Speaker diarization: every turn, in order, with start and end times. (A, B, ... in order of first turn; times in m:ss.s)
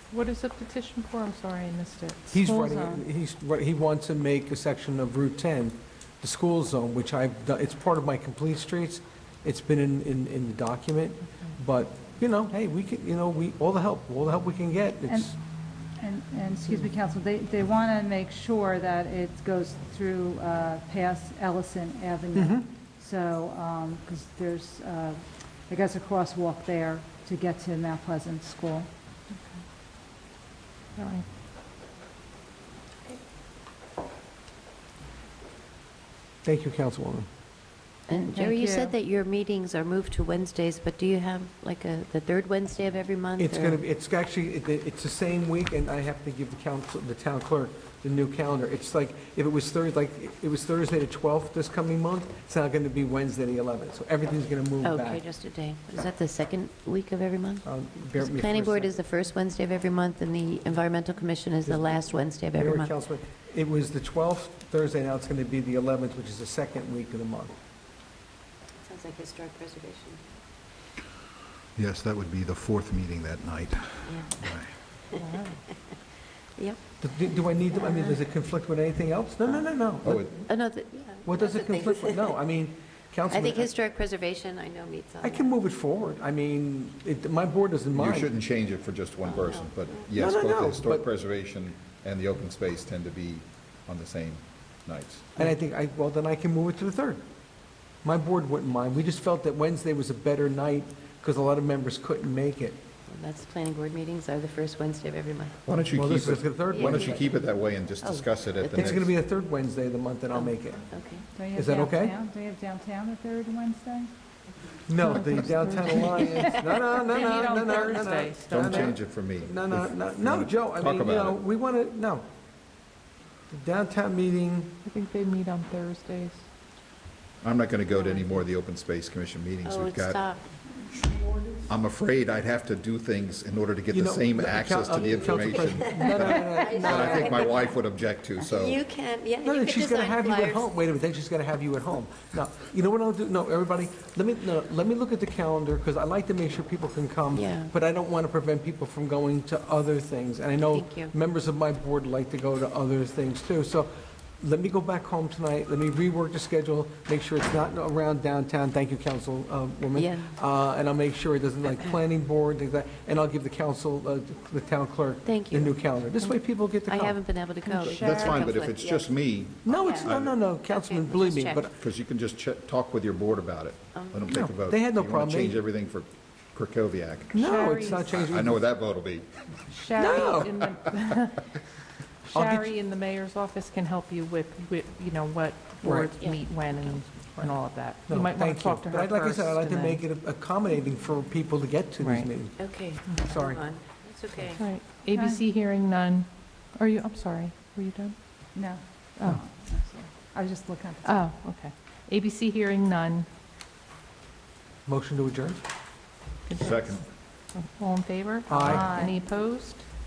0:00.1-0:02.4 A
0:02.3-0:15.4 B
0:02.4-0:03.0 C
0:15.1-0:15.3 C
0:16.0-0:28.9 C
0:22.4-0:22.7 B
0:31.0-0:31.3 A
0:36.4-0:37.3 B
0:38.1-0:43.8 D
0:38.1-0:39.0 C
0:43.4-0:55.2 B
0:54.8-0:57.7 D
0:57.6-0:59.0 B
0:58.2-1:02.9 D
1:01.6-1:07.6 B
1:08.8-1:10.2 D
1:11.8-1:14.7 E
1:14.1-1:14.5 D
1:15.2-1:15.7 A
1:16.6-1:16.8 D
1:17.0-1:20.4 B
1:17.8-1:18.2 D
1:20.0-1:20.3 E
1:20.5-1:22.3 D
1:21.2-1:23.7 B
1:23.3-1:25.5 D
1:25.2-1:28.3 B
1:27.9-1:35.3 E
1:29.3-1:30.1 D
1:30.2-1:31.1 B
1:35.4-1:37.3 B
1:38.0-1:42.9 B
1:43.1-1:45.6 D
1:45.6-1:49.2 E
1:45.9-1:47.3 B
1:46.7-1:47.3 D
1:48.0-1:48.9 D
1:48.7-1:50.9 B
1:50.3-1:51.3 D
1:51.3-1:54.1 C
1:51.5-1:52.2 B
1:54.9-2:02.3 B
1:55.1-1:56.1 A
1:55.4-1:56.6 C
1:57.0-1:59.0 A
1:58.5-2:01.4 E
2:03.5-2:04.8 B
2:04.8-2:06.4 A
2:07.4-2:10.2 E
2:08.0-2:08.2 D
2:09.6-2:10.4 D
2:11.0-2:11.6 B
2:11.7-2:18.8 E
2:13.9-2:17.4 B
2:15.3-2:17.7 D
2:18.4-2:20.6 D
2:19.4-2:47.3 B
2:27.4-2:27.7 D
2:30.7-2:31.1 D
2:40.0-2:40.3 D
2:45.3-2:45.7 D
2:46.8-2:49.1 D
2:47.6-2:48.5 C
2:47.9-2:50.4 E
2:49.6-2:51.8 B
2:49.7-2:50.1 D
2:50.7-2:51.6 D
2:51.7-2:59.3 E
2:54.0-2:54.2 D
2:54.3-2:55.6 B
2:57.3-2:58.2 A
2:57.3-2:58.7 B
2:59.7-3:01.6 A
3:00.0-3:00.6 B
3:02.3-3:10.0 A
3:02.3-3:02.7 B
3:05.8-3:06.2 B
3:06.2-3:06.7 D
3:08.1-3:12.6 B
3:12.0-3:12.3 A
3:12.6-3:14.6 D
3:13.2-3:13.7 B
3:14.6-3:18.2 A
3:15.1-3:15.4 C
3:18.5-3:21.3 C
3:21.0-3:23.3 A
3:24.9-3:25.6 B
3:26.5-3:29.9 A
3:26.6-3:27.0 E
3:28.5-3:29.0 B
3:28.6-3:29.2 C